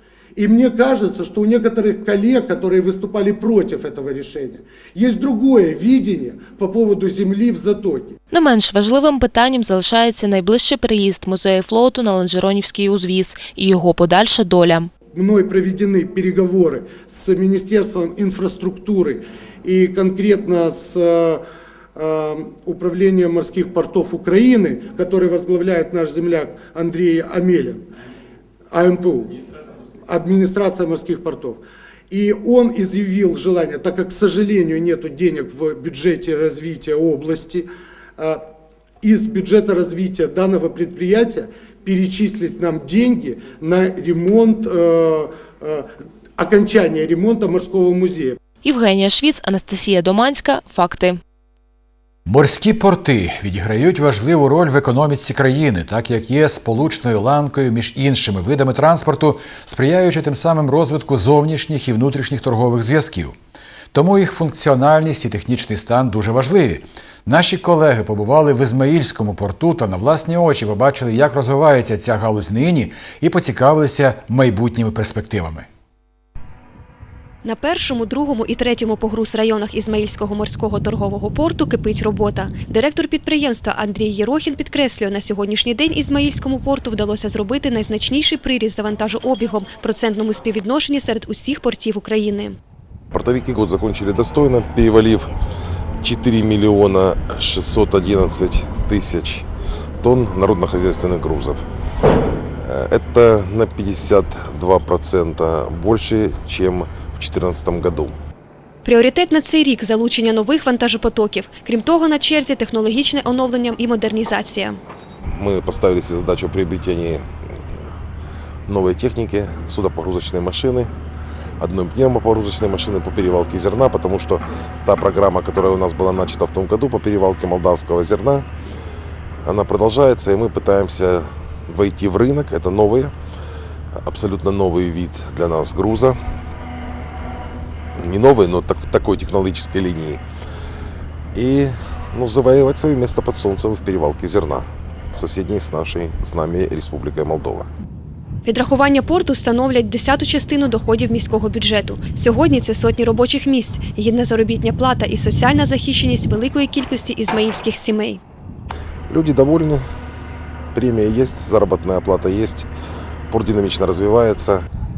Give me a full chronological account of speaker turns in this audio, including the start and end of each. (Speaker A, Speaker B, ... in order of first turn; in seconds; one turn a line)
Speaker A: 0.4-8.2
Speaker B: 8.3-14.9
Speaker A: 15.1-21.4
Speaker A: 21.9-27.8
Speaker A: 28.7-29.4
Speaker A: 30.1-37.7
Speaker A: 39.0-45.9
Speaker A: 46.4-48.4
Speaker B: 48.6-51.2
Speaker C: 52.3-63.4
Speaker C: 63.9-75.7
Speaker D: 77.4-92.6
Speaker E: 93.1-95.3
Speaker E: 96.0-99.5
Speaker E: 100.0-101.6
Speaker E: 102.6-108.2
Speaker D: 108.8-114.8
Speaker E: 115.4-117.2
Speaker E: 118.7-120.9
Speaker E: 121.6-128.5
Speaker E: 129.4-133.1
Speaker E: 134.0-136.2
Speaker E: 138.0-140.2
Speaker E: 141.3-147.7
Speaker D: 148.4-158.2
Speaker E: 159.1-159.8
Speaker E: 160.7-162.7
Speaker E: 163.3-164.6